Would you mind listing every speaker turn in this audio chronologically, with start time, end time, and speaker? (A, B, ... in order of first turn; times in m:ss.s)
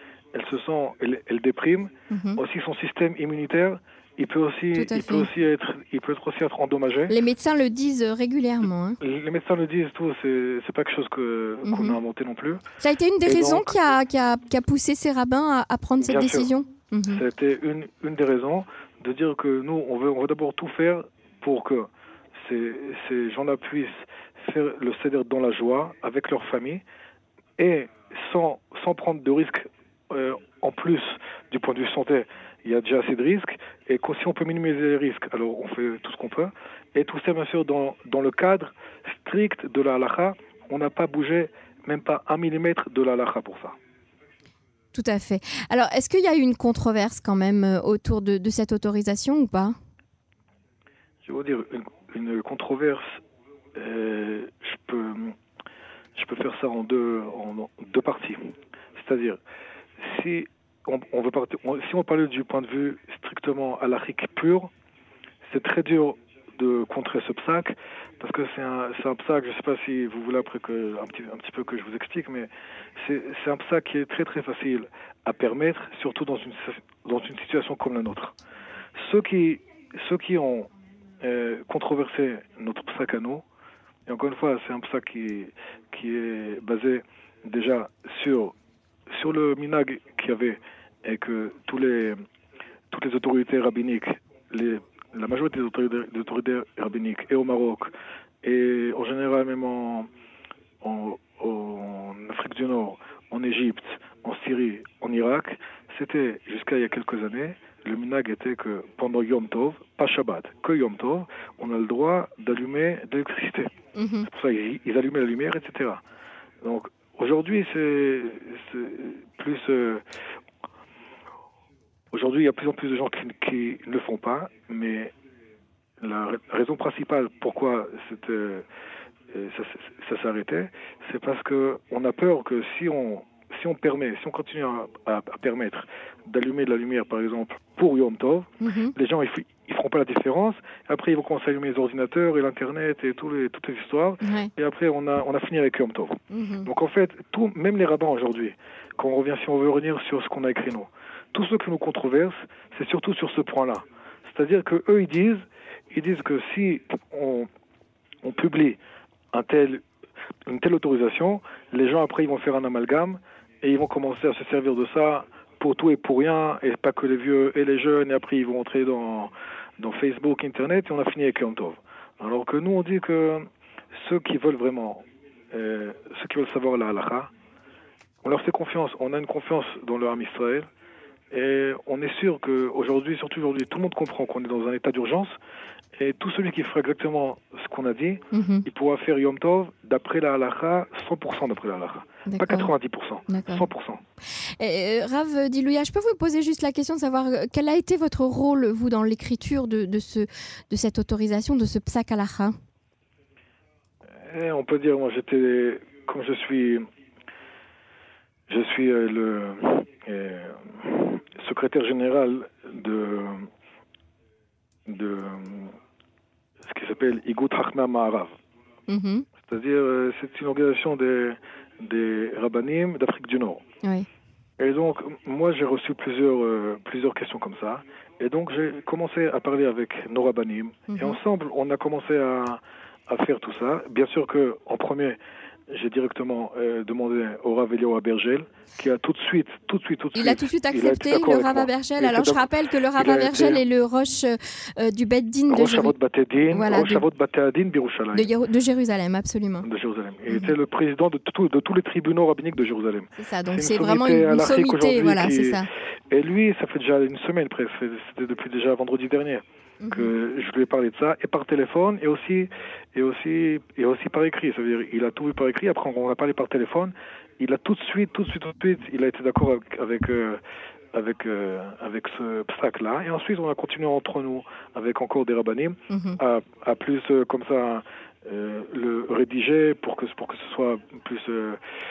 0:00.3-0:07.1 A
0:02.1-0:02.4 B
0:04.7-0:05.3 B
0:07.1-0:09.0 B
0:09.0-0:12.6 A
0:11.6-0:12.0 B
0:12.8-0:17.2 B
0:13.2-0:13.8 A
0:16.0-0:16.5 A
0:17.1-0:26.8 A
0:27.6-0:43.8 A
0:44.9-0:49.8 B
0:51.2-0:53.0 A
0:53.8-0:55.4 A
0:56.2-0:59.4 A
1:00.0-1:04.7 A
1:05.5-1:18.4 A
1:19.0-1:20.7 A
1:21.2-1:23.4 A
1:24.1-1:28.6 A
1:29.1-1:32.2 A
1:32.9-1:40.1 A
1:40.8-1:53.7 A
1:54.0-1:54.3 B
1:54.2-1:56.0 A
1:56.6-2:00.0 A
2:02.1-2:05.1 A
2:06.0-2:08.6 A
2:09.3-2:37.5 A
2:18.6-2:18.9 B
2:24.2-2:24.5 B
2:26.3-2:26.7 B
2:38.2-2:38.8 A
2:39.3-2:39.8 A
2:40.5-2:57.3 A
2:58.2-3:00.7 A
3:01.3-3:05.3 A
3:06.0-3:14.0 A
3:08.3-3:08.6 B
3:12.3-3:12.7 B
3:13.3-3:13.7 B
3:14.6-3:22.6 B
3:24.2-3:26.9 A
3:28.5-3:33.5 A
3:34.9-3:35.8 A
3:36.7-3:38.3 A
3:38.9-3:39.3 B
3:39.4-3:43.6 A
3:44.6-3:55.2 A
3:50.9-3:51.2 B
3:55.7-4:03.6 A
4:00.1-4:05.9 B
4:05.5-4:08.3 A
4:06.5-4:07.0 B
4:08.1-4:09.7 B
4:09.6-4:30.4 A
4:13.2-4:15.7 B
4:19.8-4:20.1 B
4:30.9-4:41.6 A
4:35.9-4:36.2 B